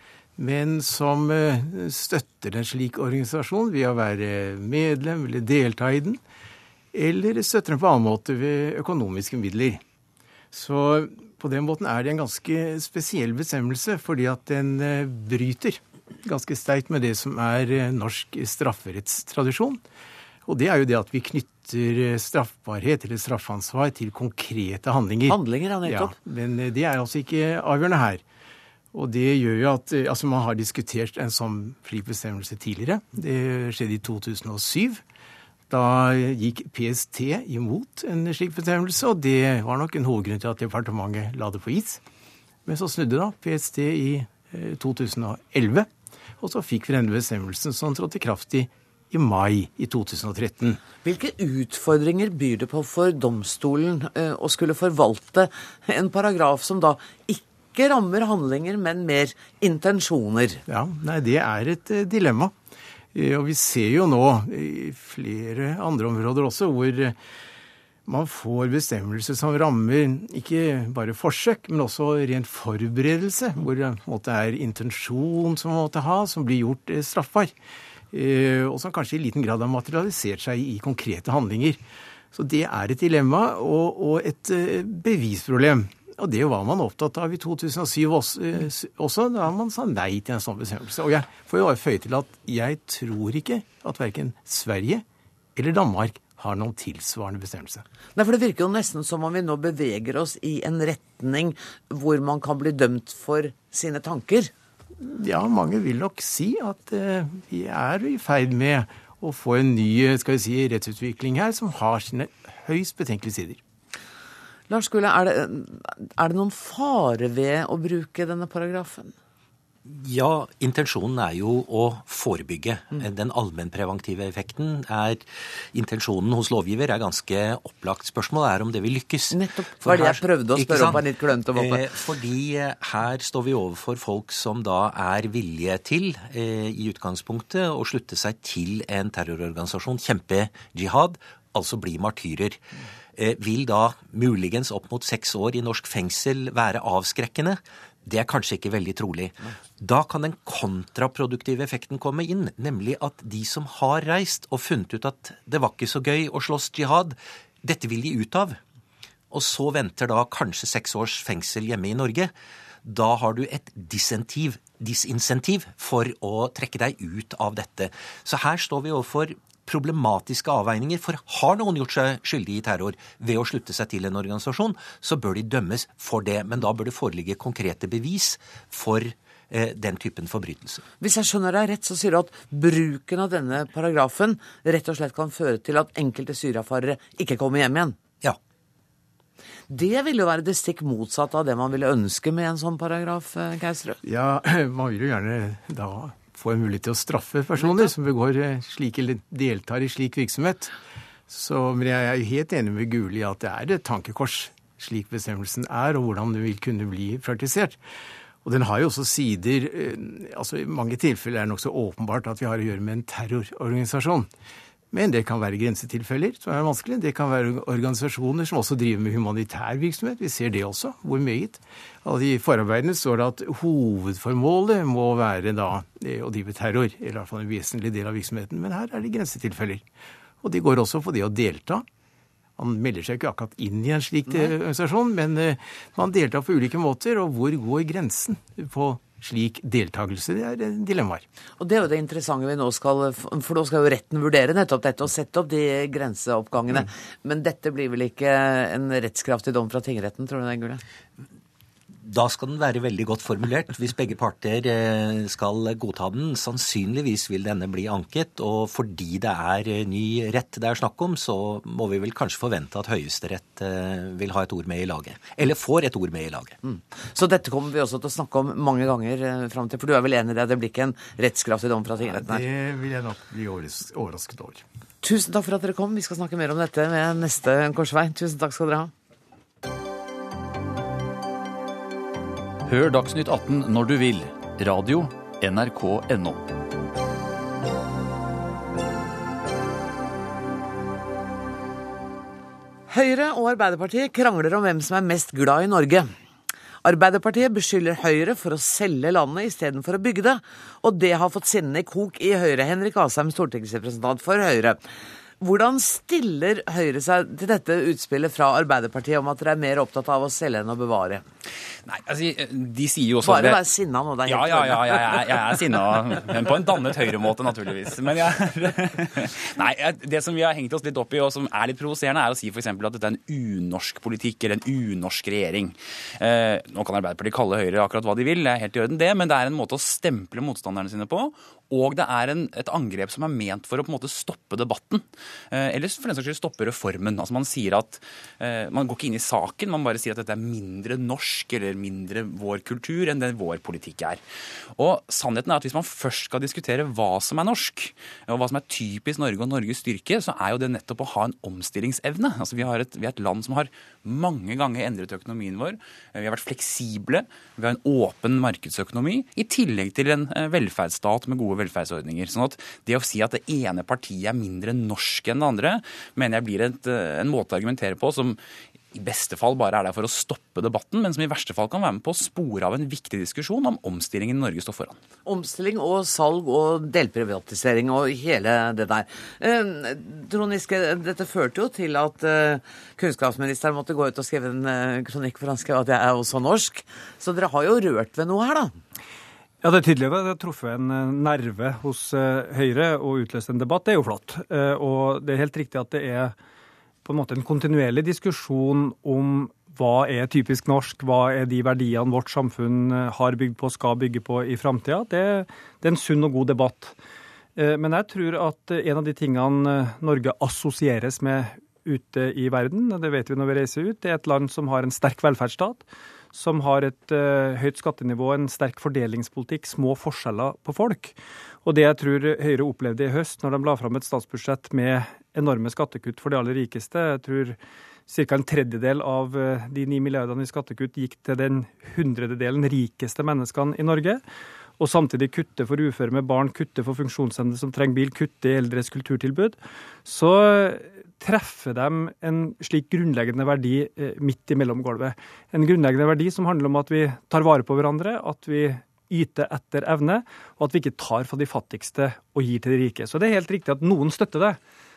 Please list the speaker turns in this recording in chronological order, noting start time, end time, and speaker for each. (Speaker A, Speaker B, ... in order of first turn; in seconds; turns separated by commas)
Speaker A: 0.4-6.2, Speaker A: 6.9-9.8, Speaker A: 10.5-19.8, Speaker A: 20.4-28.2, Speaker B: 25.3-26.1, Speaker A: 28.9-35.0, Speaker A: 35.7-42.0, Speaker A: 42.6-50.8, Speaker B: 51.0-60.6, Speaker A: 60.7-62.5, Speaker A: 63.1-67.2, Speaker A: 68.0-77.5, Speaker A: 78.1-81.8, Speaker A: 82.3-95.0, Speaker A: 95.5-97.8, Speaker B: 98.1-104.5, Speaker A: 105.0-113.6, Speaker B: 114.7-119.1, Speaker C: 119.8-142.6, Speaker B: 129.3-131.9, Speaker C: 143.2-158.6, Speaker C: 159.3-162.3, Speaker C: 162.8-180.8, Speaker B: 181.0-188.0, Speaker B: 189.7-194.0, Speaker A: 194.0-200.7, Speaker A: 201.3-207.8, Speaker A: 208.4-214.3, Speaker A: 214.9-229.8, Speaker A: 230.4-231.8, Speaker A: 232.6-241.2, Speaker B: 241.6-250.8, Speaker C: 252.0-266.6, Speaker B: 266.6-272.4, Speaker A: 272.1-274.6, Speaker B: 275.0-278.9, Speaker D: 282.6-286.4, Speaker B: 292.9-296.1, Speaker B: 296.8-304.8, Speaker B: 305.4-311.2, Speaker E: 311.8-313.6, Speaker B: 313.2-315.6, Speaker E: 314.2-344.2, Speaker E: 344.7-368.4, Speaker E: 368.9-375.0, Speaker B: 375.2-388.7, Speaker F: 389.6-396.3, Speaker F: 397.0-406.9, Speaker F: 407.6-434.2, Speaker F: 434.8-454.6